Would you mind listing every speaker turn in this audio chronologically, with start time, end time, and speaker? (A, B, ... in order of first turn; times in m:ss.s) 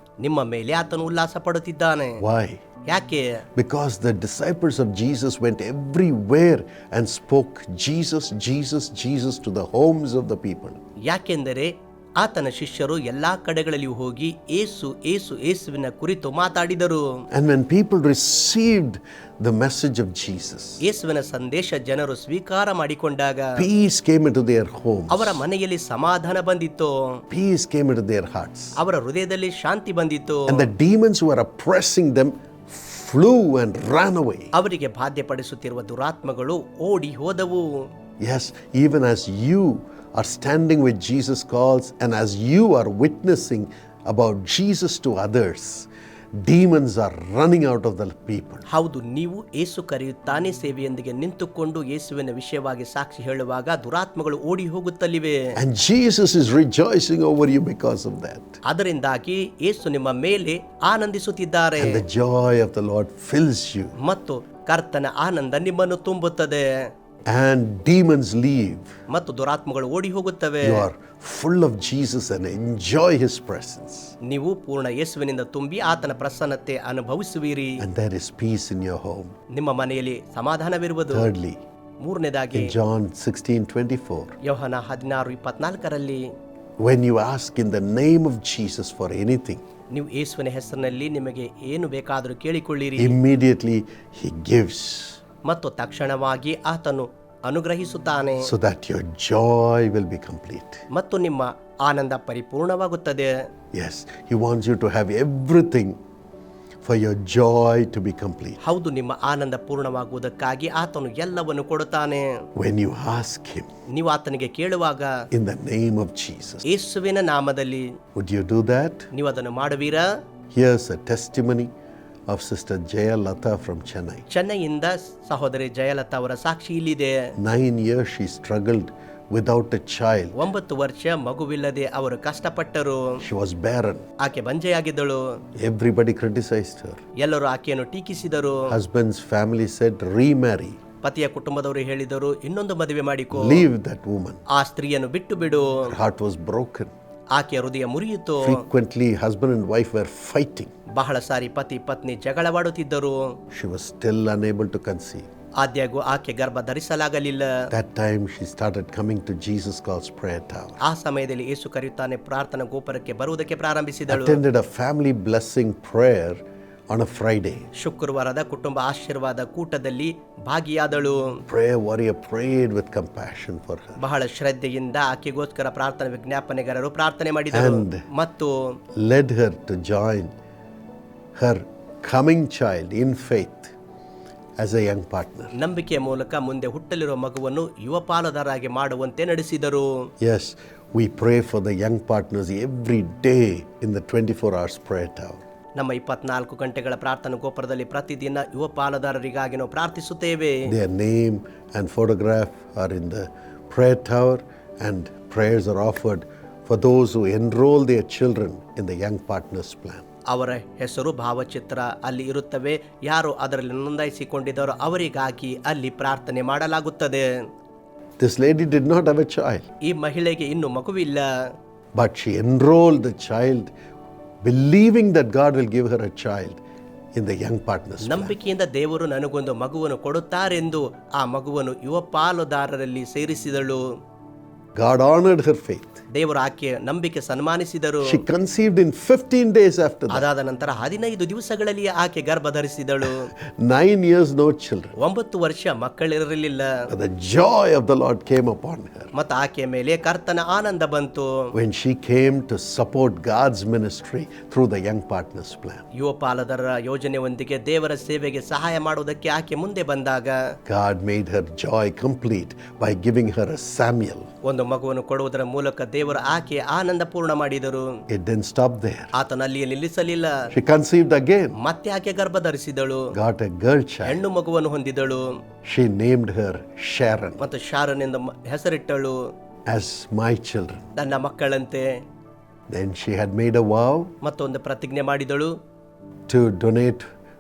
0:00.2-0:02.2 A
0:02.2-0:02.6 B
0:02.9-0:03.4 A
0:03.6-0:10.8 B
0:11.1-0:17.2 A
0:17.3-0:20.8 B
0:20.8-0:23.6 A
0:23.6-0:25.4 B
0:25.1-0:27.2 A
0:27.3-0:28.8 B
0:28.8-0:30.7 A
0:30.5-0:34.5 B
0:34.5-0:37.9 A
0:38.2-0:48.7 B
0:48.7-0:55.5 A
0:55.5-0:58.6 B
0:58.6-1:02.0 A
1:01.8-1:04.0 B
1:04.0-1:06.8 A
1:07.3-1:08.9 B
1:09.1-1:10.9 A
1:10.6-1:14.2 B
1:14.2-1:17.8 A
1:17.8-1:19.3 B
1:19.5-1:21.3 A
1:21.1-1:21.6 B
1:22.0-1:22.8 A
1:22.5-1:24.4 B
1:24.4-1:26.3 A
1:26.8-1:29.6 B
1:29.9-1:33.2 A
1:33.0-1:35.2 B
1:35.4-1:38.5 A
1:38.4-1:40.8 B
1:40.9-1:43.5 A
1:43.7-1:46.0 B
1:46.8-1:48.6 B
1:48.6-1:52.4 A
1:52.6-1:53.7 B
1:53.9-1:55.3 A
1:55.3-1:56.7 B
1:56.7-1:57.9 A
1:58.2-1:59.1 B
1:59.1-2:00.1 A
2:00.5-2:01.7 B
2:02.3-2:04.3 B
2:04.3-2:07.3 A
2:07.4-2:10.4 B
2:10.4-2:13.2 A
2:13.2-2:14.1 B
2:14.2-2:15.4 A
2:15.6-2:17.0 B
2:17.2-2:18.7 A
2:18.7-2:20.8 B
2:21.0-2:23.7 A
2:23.3-2:24.4 B
2:24.5-2:25.9 A
2:25.8-2:26.9 B
2:27.3-2:28.6 A
2:28.4-2:30.7 B
2:30.9-2:33.4 A
2:33.5-2:35.3 B
2:35.6-2:37.7 A
2:37.7-2:40.8 B
2:40.8-2:44.4 A
2:44.1-2:47.7 B
2:47.8-2:51.4 A
2:51.5-2:54.0 B
2:54.0-2:58.8 A
2:57.5-2:58.1 B
2:59.0-3:00.3 B
3:01.4-3:03.7 B
3:04.6-3:05.5 B
3:05.5-3:10.1 A
3:10.2-3:15.4 B
3:15.8-3:20.7 A
3:20.6-3:30.0 B
3:30.3-3:37.4 A
3:38.2-3:39.7 B
3:39.8-3:41.4 A
3:42.0-3:43.7 B
3:44.4-3:46.6 B
3:47.2-3:48.4 B
3:48.0-3:53.8 A
3:54.8-3:56.0 B
3:56.1-3:58.2 A
3:58.0-4:00.3 B
4:00.1-4:03.3 A
4:03.1-4:05.0 B
4:05.0-4:06.8 A
4:06.9-4:09.1 B
4:09.1-4:11.5 A
4:11.5-4:15.8 B
4:16.0-4:20.4 A
4:20.7-4:24.3 B
4:24.4-4:27.9 A
4:28.1-4:29.1 B
4:29.1-4:30.4 A
4:30.5-4:31.6 B
4:31.6-4:33.1 A
4:33.1-4:34.2 B
4:34.0-4:35.4 A
4:35.6-4:37.5 B
4:37.4-4:39.2 A
4:39.7-4:40.9 B
4:41.0-4:41.9 A
4:42.7-4:44.1 B
4:44.2-4:45.5 A
4:46.3-4:47.1 B